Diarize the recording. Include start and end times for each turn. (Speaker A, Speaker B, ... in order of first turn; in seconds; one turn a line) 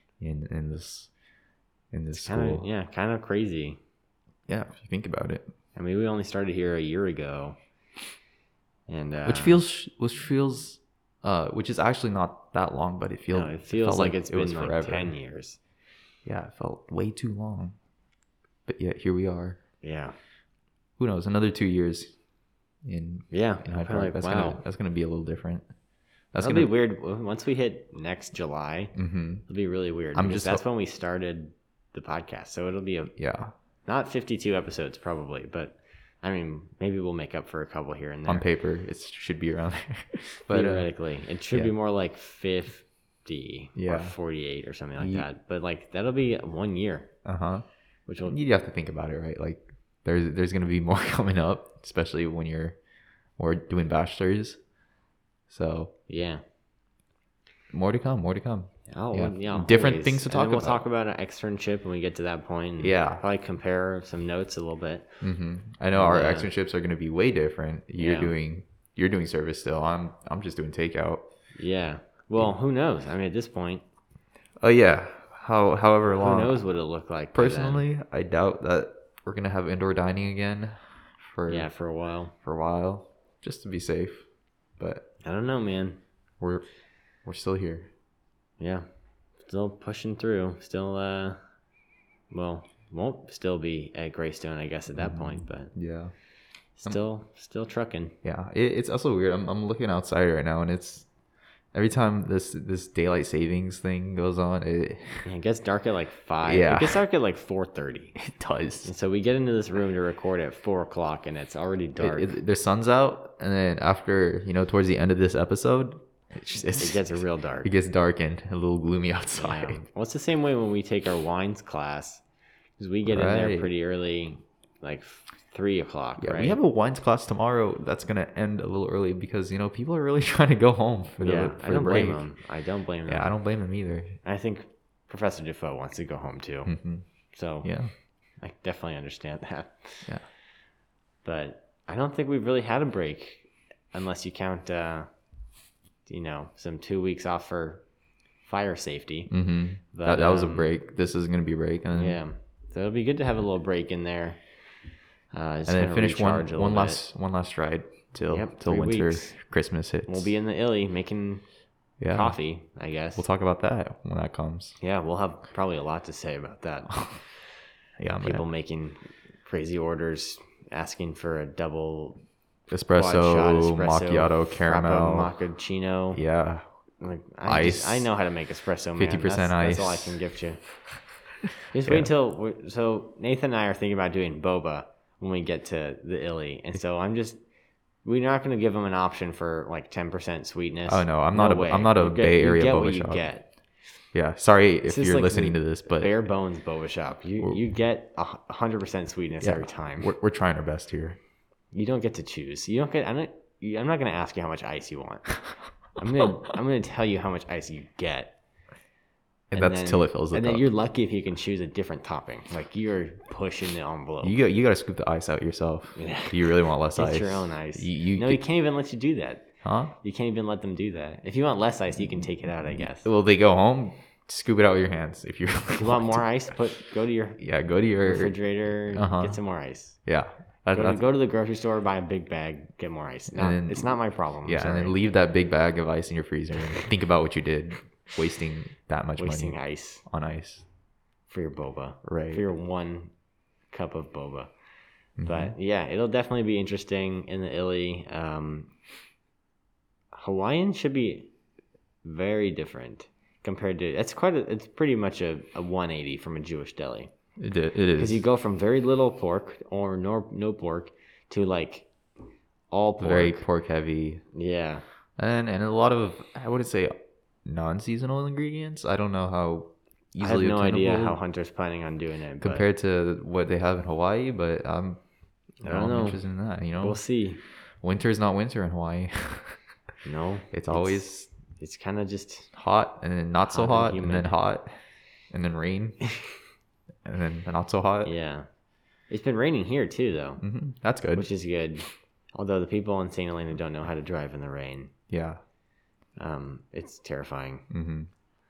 Speaker A: 0.2-1.1
Speaker A: 1.9-2.6
Speaker B: 2.1-3.8
Speaker A: 4.5-5.5
Speaker B: 5.8-7.6
Speaker B: 8.9-9.6
Speaker A: 9.2-15.1
Speaker B: 13.3-15.6
Speaker A: 16.2-17.8
Speaker A: 18.7-19.6
Speaker B: 19.8-20.1
Speaker A: 21.0-22.1
Speaker A: 22.8-25.6
Speaker B: 23.3-24.6
Speaker A: 26.3-26.7
Speaker B: 26.4-28.9
Speaker A: 28.9-29.4
Speaker B: 29.5-33.1
Speaker A: 30.1-30.6
Speaker A: 33.2-33.5
Speaker B: 33.9-38.5
Speaker A: 38.3-40.9
Speaker B: 40.5-47.1
Speaker A: 43.8-44.1
Speaker A: 45.0-45.2
Speaker A: 47.2-47.6
Speaker B: 48.1-48.4
Speaker A: 48.2-52.8
Speaker A: 53.4-54.6
Speaker A: 55.5-55.9
Speaker B: 56.1-56.4
Speaker A: 57.7-60.8
Speaker B: 58.9-65.2
Speaker A: 62.8-63.2
Speaker A: 65.2-71.2
Speaker B: 65.9-66.5
Speaker B: 68.0-68.3
Speaker B: 71.5-73.8
Speaker A: 74.6-76.6
Speaker B: 76.2-77.8
Speaker A: 77.3-81.7
Speaker B: 81.5-82.3
Speaker A: 82.4-84.2
Speaker A: 84.8-85.1
Speaker B: 85.2-86.0
Speaker A: 87.2-87.9
Speaker B: 88.6-88.8
Speaker B: 89.5-91.4
Speaker B: 92.3-95.7
Speaker A: 94.9-96.1
Speaker B: 96.8-98.2
Speaker A: 98.2-101.1
Speaker A: 101.7-105.2
Speaker B: 105.2-108.2
Speaker A: 106.4-107.0
Speaker A: 108.2-108.9
Speaker B: 108.8-112.3
Speaker A: 112.0-119.8
Speaker B: 116.8-117.7
Speaker B: 119.3-122.2
Speaker B: 122.8-126.6
Speaker A: 123.0-123.7
Speaker A: 126.2-132.2
Speaker B: 131.2-133.3
Speaker A: 133.1-134.2
Speaker B: 134.2-136.7
Speaker A: 136.6-137.1
Speaker B: 137.3-137.7
Speaker A: 137.6-137.9
Speaker B: 138.4-140.1
Speaker B: 141.2-145.1
Speaker B: 146.1-147.8
Speaker B: 148.4-149.3
Speaker A: 149.3-152.2
Speaker B: 149.9-150.7
Speaker B: 151.9-154.4
Speaker B: 155.3-157.0
Speaker A: 155.7-160.3
Speaker B: 158.3-159.3
Speaker B: 160.1-161.4
Speaker A: 162.0-162.3
Speaker B: 162.1-163.2
Speaker A: 163.2-164.8
Speaker B: 164.8-167.1
Speaker A: 166.9-167.2
Speaker A: 168.0-168.4
Speaker B: 168.2-172.2
Speaker A: 172.7-175.3
Speaker B: 172.9-176.2
Speaker A: 176.1-176.6
Speaker B: 177.0-180.6
Speaker A: 177.4-178.1
Speaker A: 179.0-180.2
Speaker B: 181.7-187.4
Speaker A: 181.8-182.1
Speaker B: 188.0-193.5
Speaker A: 190.9-193.2
Speaker A: 194.1-196.1
Speaker B: 194.8-200.1
Speaker A: 199.4-201.2
Speaker B: 201.7-205.3
Speaker B: 206.0-208.4
Speaker A: 209.5-210.6
Speaker B: 209.5-214.3
Speaker A: 214.2-218.4
Speaker B: 215.9-219.5
Speaker A: 219.6-219.9
Speaker B: 220.0-223.1
Speaker A: 223.0-226.2
Speaker B: 225.7-227.4
Speaker A: 227.4-229.4
Speaker B: 228.0-230.0
Speaker A: 230.0-231.0
Speaker B: 230.7-234.9
Speaker A: 233.3-233.9
Speaker A: 234.4-240.6
Speaker B: 239.2-240.0
Speaker B: 241.3-243.1
Speaker A: 242.0-242.4
Speaker B: 243.7-244.5
Speaker A: 245.2-245.5
Speaker B: 245.2-248.7
Speaker B: 250.1-251.3
Speaker B: 252.0-257.1
Speaker A: 257.4-258.2
Speaker B: 257.9-261.9
Speaker B: 262.7-263.4
Speaker A: 263.0-264.2
Speaker B: 264.3-264.8
Speaker A: 265.2-266.9
Speaker A: 267.4-271.2
Speaker B: 270.2-272.6
Speaker A: 272.4-275.0
Speaker B: 275.6-276.2
Speaker A: 275.6-277.0
Speaker B: 276.8-277.4
Speaker A: 277.8-279.6
Speaker B: 280.0-282.5
Speaker A: 280.5-281.3
Speaker A: 282.5-284.7
Speaker B: 283.4-284.4
Speaker A: 285.3-286.0
Speaker A: 287.0-288.1
Speaker B: 288.0-288.5
Speaker B: 289.1-290.4
Speaker A: 290.4-291.3
Speaker B: 291.1-294.9
Speaker A: 295.1-295.4
Speaker B: 296.2-297.7
Speaker A: 297.7-298.1